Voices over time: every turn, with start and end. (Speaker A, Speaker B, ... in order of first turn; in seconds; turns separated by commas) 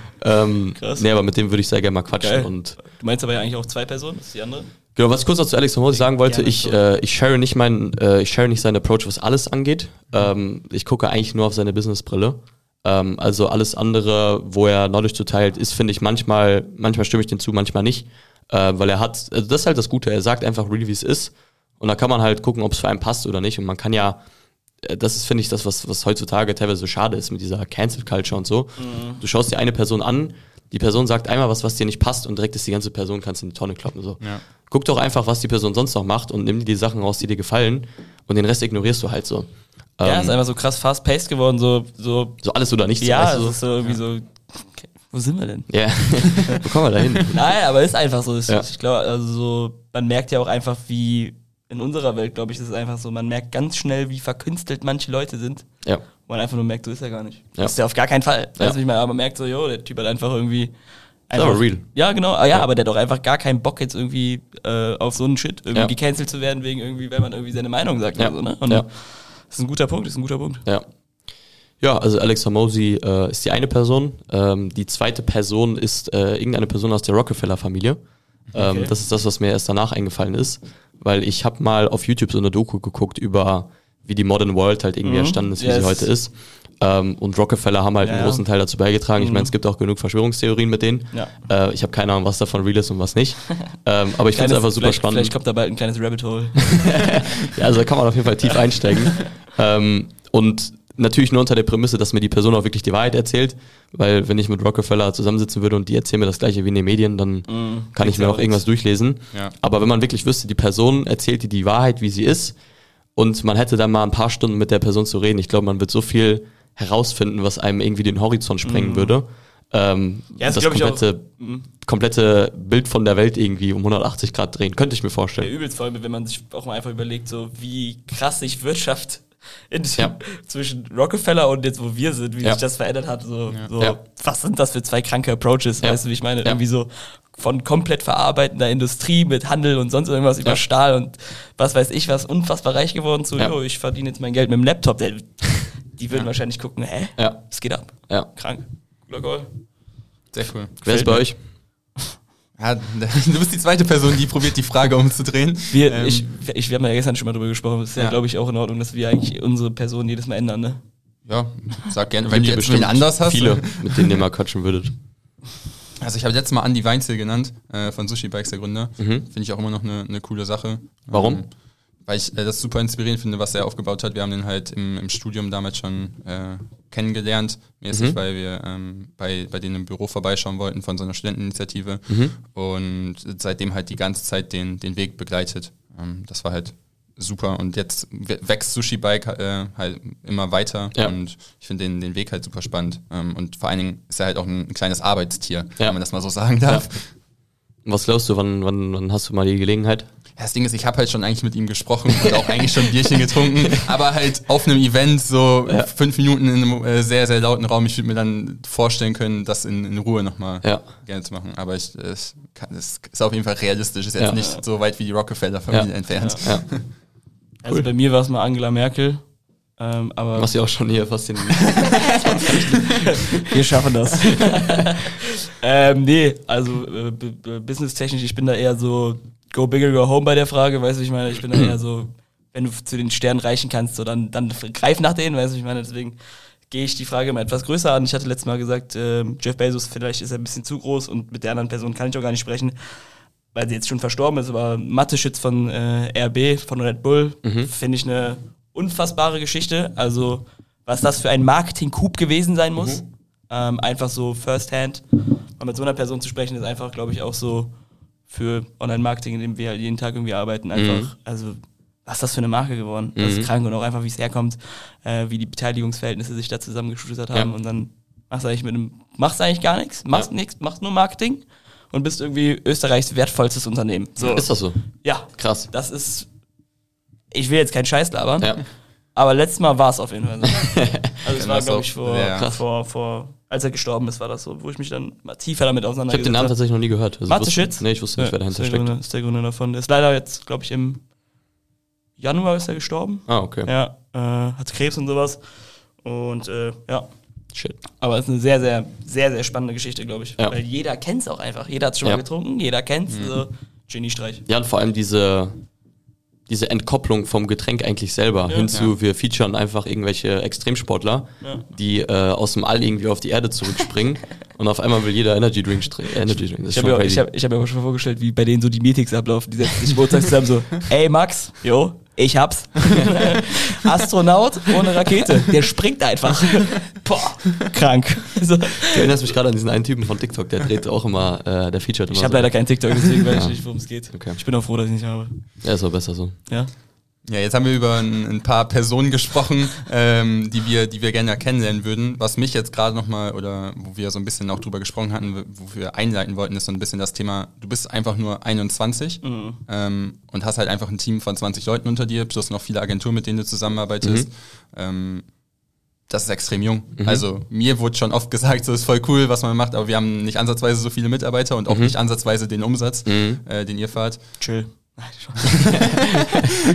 Speaker A: 0.2-2.8, Speaker B: 0.8-1.0, Speaker B: 2.2-4.7, Speaker A: 4.9-24.2, Speaker B: 5.9-6.8, Speaker A: 24.8-40.4, Speaker B: 28.8-29.2, Speaker B: 40.0-42.4, Speaker A: 42.4-43.6, Speaker B: 43.0-46.6, Speaker A: 45.7-47.5, Speaker B: 47.2-60.7, Speaker B: 61.3-70.6, Speaker A: 61.3-61.9, Speaker A: 68.2-68.9, Speaker A: 71.8-78.0, Speaker A: 78.5-95.3, Speaker B: 78.5-78.9, Speaker B: 85.0-86.1, Speaker B: 88.0-88.4, Speaker B: 89.1-89.5, Speaker B: 94.3-97.3, Speaker A: 96.8-112.5, Speaker B: 107.5-108.6, Speaker A: 113.2-125.5, Speaker B: 118.6-119.2, Speaker B: 120.4-121.7, Speaker B: 125.4-149.6, Speaker A: 135.8-136.6, Speaker A: 147.2-148.3, Speaker C: 150.3-150.8, Speaker A: 150.8-151.4, Speaker B: 150.8-151.3, Speaker C: 152.6-156.3, Speaker B: 155.7-160.8, Speaker C: 161.2-164.1, Speaker A: 162.3-164.9, Speaker C: 166.0-197.1, Speaker A: 169.0-169.2, Speaker A: 171.1-171.4, Speaker A: 182.1-182.3, Speaker A: 196.6-196.9, Speaker A: 197.8-200.1, Speaker C: 200.4-216.9, Speaker A: 215.7-216.8, Speaker B: 216.1-216.4, Speaker B: 217.6-220.5, Speaker A: 220.3-222.7, Speaker B: 222.2-243.0, Speaker B: 243.5-257.7, Speaker A: 247.4-247.7, Speaker B: 258.3-276.3, Speaker A: 260.7-261.1, Speaker A: 263.1-263.5, Speaker A: 274.2-275.7, Speaker B: 277.3-278.6, Speaker A: 278.4-278.6, Speaker B: 279.1-286.6, Speaker C: 281.3-282.5, Speaker A: 282.4-282.6, Speaker A: 286.1-288.9, Speaker B: 287.3-291.0, Speaker B: 292.2-297.1, Speaker A: 293.3-293.7, Speaker B: 297.8-304.4, Speaker C: 303.1-303.4, Speaker A: 304.4-305.6, Speaker A: 306.5-317.2, Speaker B: 316.7-329.1, Speaker A: 328.9-334.4, Speaker B: 332.1-335.4, Speaker A: 335.6-336.4, Speaker C: 337.2-355.3, Speaker B: 349.2-349.6, Speaker A: 354.0-354.3, Speaker C: 356.1-364.4, Speaker A: 357.0-357.2, Speaker A: 361.7-361.9, Speaker A: 363.1-363.4, Speaker B: 364.4-366.1